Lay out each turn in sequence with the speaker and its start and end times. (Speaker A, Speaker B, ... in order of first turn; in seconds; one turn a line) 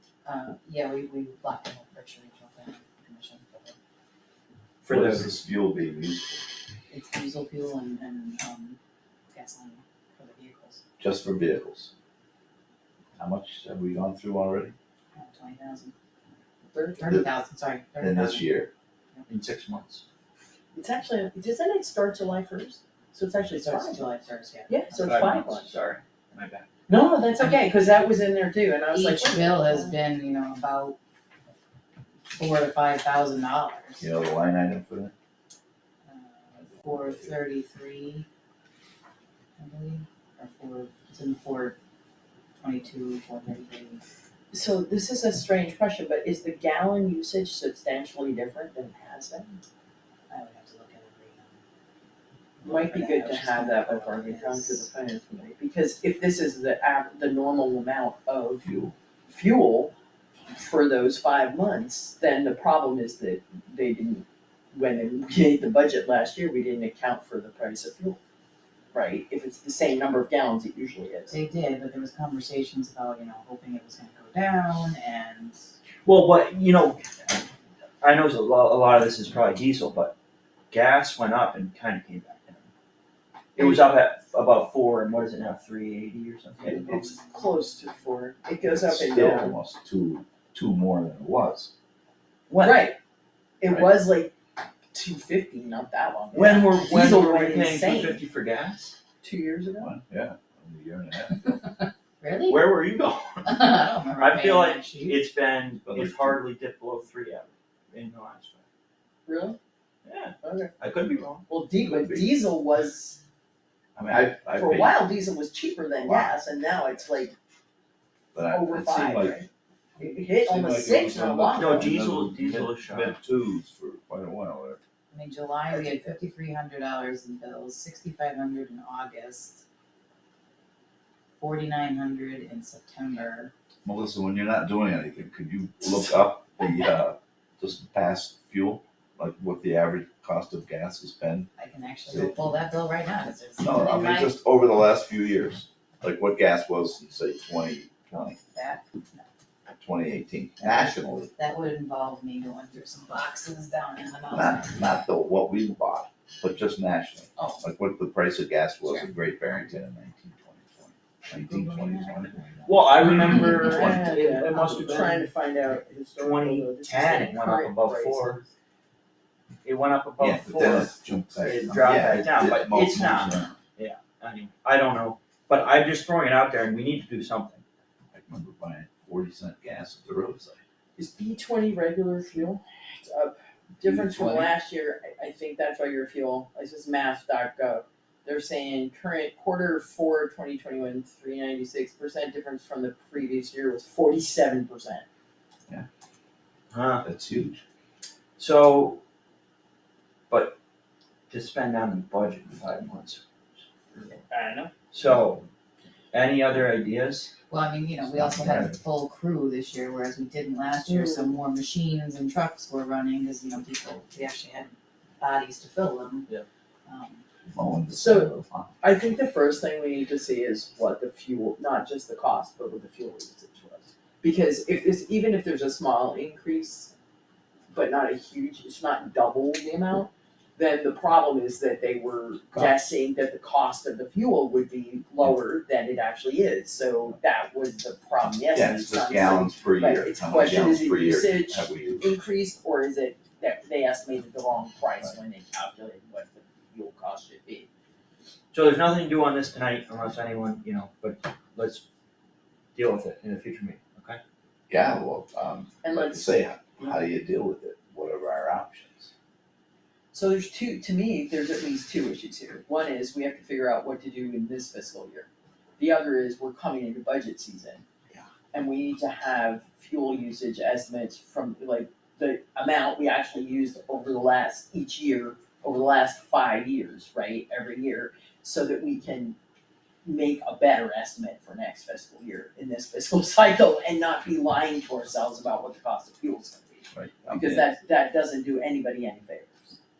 Speaker A: 0.2-3.8
Speaker B: 4.8-5.3
Speaker C: 4.9-6.5
Speaker A: 6.9-8.8
Speaker A: 9.3-10.8
Speaker C: 11.0-11.9
Speaker C: 13.2-14.7
Speaker A: 15.1-15.9
Speaker D: 16.7-17.1
Speaker A: 17.0-18.5
Speaker C: 18.0-18.7
Speaker B: 19.3-20.0
Speaker D: 20.7-24.1
Speaker A: 23.6-24.9
Speaker D: 24.7-25.7
Speaker B: 24.9-26.7
Speaker D: 26.9-29.9
Speaker A: 27.4-27.8
Speaker A: 28.9-31.0
Speaker A: 32.3-34.1
Speaker C: 34.0-35.1
Speaker A: 36.0-38.2
Speaker C: 36.6-37.3
Speaker A: 39.6-41.8
Speaker A: 42.6-44.0
Speaker D: 44.5-49.6
Speaker A: 50.3-51.6
Speaker A: 52.6-54.9
Speaker D: 52.6-58.6
Speaker C: 58.6-58.9
Speaker D: 59.2-59.9
Speaker D: 60.5-68.2
Speaker D: 68.9-71.3
Speaker A: 71.3-75.6
Speaker B: 76.0-77.0
Speaker B: 78.0-80.1
Speaker B: 80.7-82.7
Speaker D: 83.5-83.8
Speaker B: 83.5-87.0
Speaker D: 86.8-89.6
Speaker A: 86.9-87.8
Speaker C: 88.7-91.7
Speaker B: 92.5-92.9
Speaker D: 92.6-93.0
Speaker D: 93.6-94.3
Speaker D: 94.9-98.2
Speaker B: 96.3-99.0
Speaker D: 99.2-99.9
Speaker C: 99.8-101.6
Speaker A: 102.2-102.7
Speaker B: 102.5-108.6
Speaker A: 103.5-105.2
Speaker C: 105.8-106.4
Speaker D: 109.2-109.6
Speaker B: 110.0-111.4
Speaker D: 110.4-110.7
Speaker D: 111.5-113.2
Speaker C: 111.8-112.3
Speaker C: 114.0-115.0
Speaker D: 114.5-117.3
Speaker C: 116.0-116.4
Speaker C: 118.3-119.4
Speaker D: 118.5-121.9
Speaker C: 120.0-124.8
Speaker B: 121.5-123.2
Speaker A: 125.1-129.6
Speaker D: 125.7-126.0
Speaker A: 131.4-133.5
Speaker C: 133.8-141.5
Speaker A: 141.6-144.3
Speaker C: 142.1-142.5
Speaker C: 143.6-148.4
Speaker A: 148.1-149.2
Speaker C: 149.8-151.3
Speaker A: 151.3-154.8
Speaker C: 154.3-162.7
Speaker A: 157.3-157.6
Speaker A: 161.3-164.1
Speaker B: 162.6-165.3
Speaker C: 163.3-164.2
Speaker D: 163.4-168.5
Speaker B: 166.2-168.4
Speaker B: 169.6-177.6
Speaker C: 170.2-173.6
Speaker C: 178.1-180.6
Speaker D: 181.0-195.0
Speaker B: 183.9-184.2
Speaker B: 196.7-197.0
Speaker C: 197.0-197.6
Speaker B: 198.4-199.0
Speaker B: 200.3-200.6
Speaker B: 201.3-204.2
Speaker D: 204.3-204.7
Speaker B: 204.9-205.4
Speaker B: 206.1-207.3
Speaker A: 207.5-216.3
Speaker C: 208.0-208.8
Speaker D: 210.8-211.3
Speaker A: 216.8-217.2
Speaker C: 217.5-218.7
Speaker D: 217.9-226.9
Speaker D: 227.7-247.7
Speaker C: 238.5-242.1
Speaker B: 248.5-251.8
Speaker B: 252.7-254.2
Speaker C: 254.7-259.1
Speaker D: 255.8-256.5
Speaker D: 260.1-267.8
Speaker D: 268.5-279.4
Speaker D: 280.0-289.8
Speaker C: 286.9-287.7